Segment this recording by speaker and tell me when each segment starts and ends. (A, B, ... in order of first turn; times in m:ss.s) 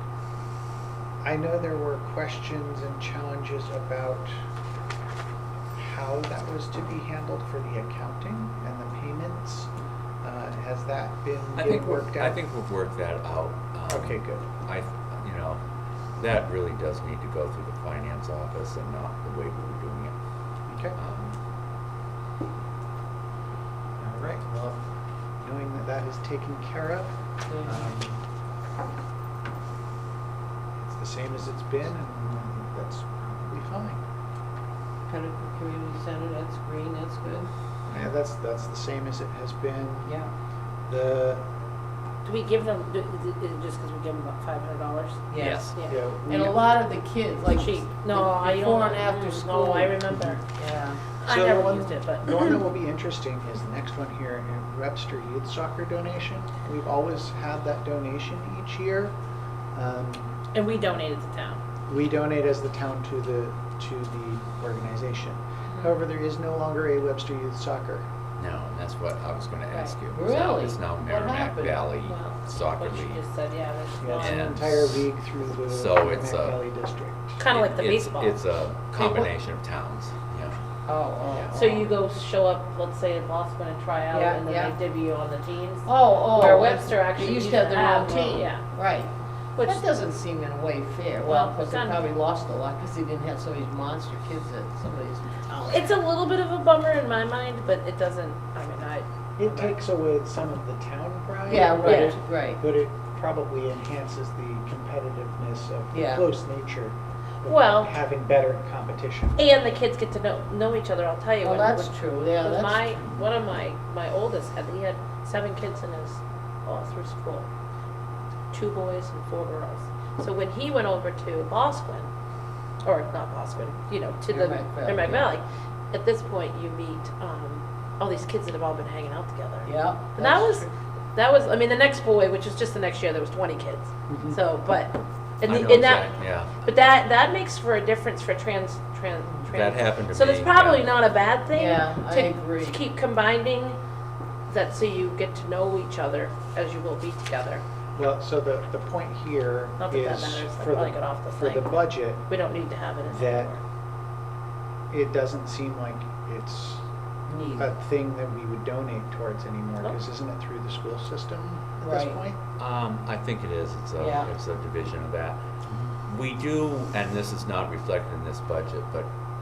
0:01.2-0:04.4 A
0:05.8-0:09.7 A
0:10.2-0:12.4 A
0:11.6-0:15.6 B
0:13.9-0:14.5 A
0:16.2-0:20.2 B
0:20.7-0:21.0 A
0:21.0-0:21.4 B
0:24.0-0:24.8 A
0:25.4-0:28.2 A
0:27.5-0:27.9 C
0:30.8-0:34.0 A
0:35.1-0:37.5 C
0:37.9-0:40.2 A
0:40.0-0:40.3 C
0:40.9-0:41.5 A
0:42.2-0:46.0 D
0:45.3-0:45.7 C
0:45.4-0:45.7 B
0:45.9-0:46.7 A
0:46.3-0:50.0 C
0:47.5-0:50.4 D
0:50.1-0:50.4 A
0:50.5-0:51.0 C
0:51.2-0:52.6 D
0:51.3-0:59.1 A
0:59.7-1:00.3 A
1:00.5-1:01.6 D
1:01.9-1:08.1 A
1:08.4-1:13.2 B
1:09.8-1:11.8 C
1:12.0-1:14.6 D
1:14.0-1:17.4 A
1:14.2-1:15.1 B
1:15.7-1:16.6 B
1:17.4-1:18.4 D
1:17.5-1:20.6 B
1:19.0-1:19.3 D
1:20.9-1:21.9 C
1:21.5-1:28.6 D
1:24.1-1:24.7 C
1:25.8-1:35.8 C
1:29.6-1:29.8 D
1:31.2-1:32.1 D
1:35.5-1:39.8 D
1:39.4-1:49.4 A
1:41.5-1:42.6 C
1:41.8-1:42.2 D
1:45.9-1:46.2 C
1:47.4-1:48.0 D
1:49.4-1:57.5 D
1:51.4-1:53.1 C
1:58.5-2:02.1 D
2:02.8-2:23.8 D
2:04.3-2:05.2 C
2:09.6-2:10.7 C
2:14.1-2:14.4 A
2:15.4-2:16.6 B
2:19.5-2:20.9 B
2:21.5-2:22.8 C
2:24.5-2:27.6 D
2:28.0-2:32.3 A
2:29.8-2:33.6 D
2:33.0-2:33.5 A
2:34.9-2:36.9 A
2:37.3-2:37.7 C
2:37.6-2:42.4 A
2:41.8-2:42.2 C
2:42.6-2:45.4 B
2:44.0-2:44.3 C
2:46.1-2:49.1 B